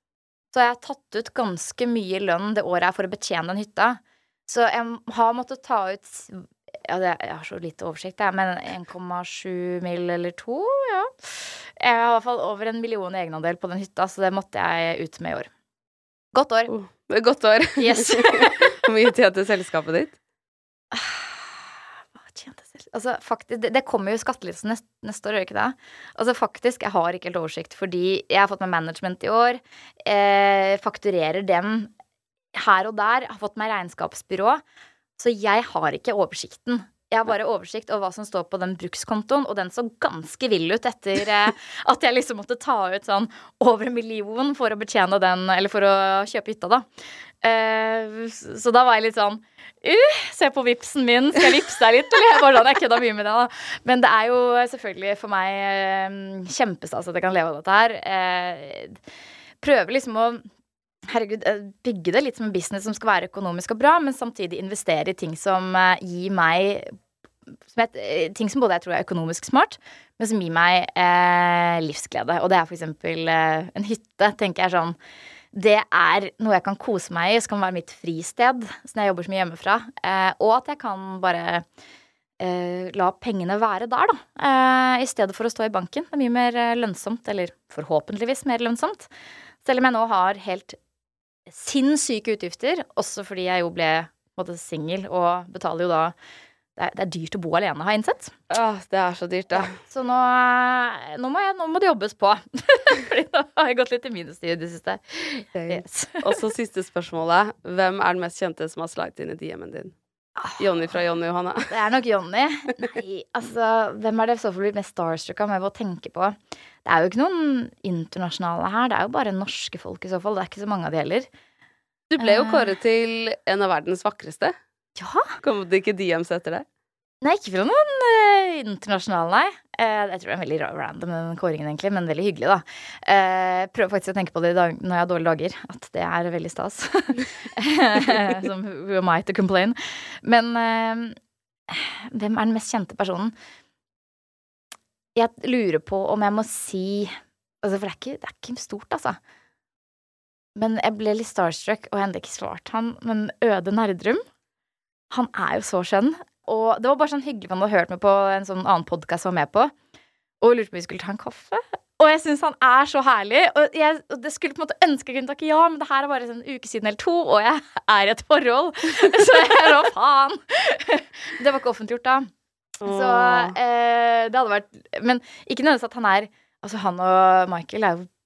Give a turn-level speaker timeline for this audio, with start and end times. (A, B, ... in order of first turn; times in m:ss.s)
0:00.5-0:15.5 A
0:16.3-0:16.7 A
0:16.7-0:20.2 B
0:17.8-0:18.7 A
0:20.9-0:31.9 A
0:32.6-0:34.6 A
0:35.2-0:46.9 A
0:47.4-0:59.0 A
0:59.6-1:00.4 A
1:01.1-1:06.9 A
1:07.7-1:15.0 A
1:15.5-1:21.7 A
1:22.4-1:29.1 A
1:29.6-1:30.8 A
1:31.5-1:36.2 A
1:36.8-1:38.3 A
1:38.5-1:39.7 B
1:39.6-1:46.3 A
1:45.6-1:50.0 B
1:50.4-1:50.6 A
1:50.6-1:51.7 B
1:51.7-2:01.3 A
2:02.1-2:04.6 B
2:02.2-2:02.7 A
2:05.0-2:05.3 A
2:05.4-2:06.6 B
2:07.2-2:21.2 A
2:21.7-2:23.3 A
2:25.2-2:29.2 A
2:30.6-2:34.2 A
2:35.1-2:39.7 A
2:40.4-2:52.3 A
2:52.8-2:53.6 B
2:52.8-2:58.1 A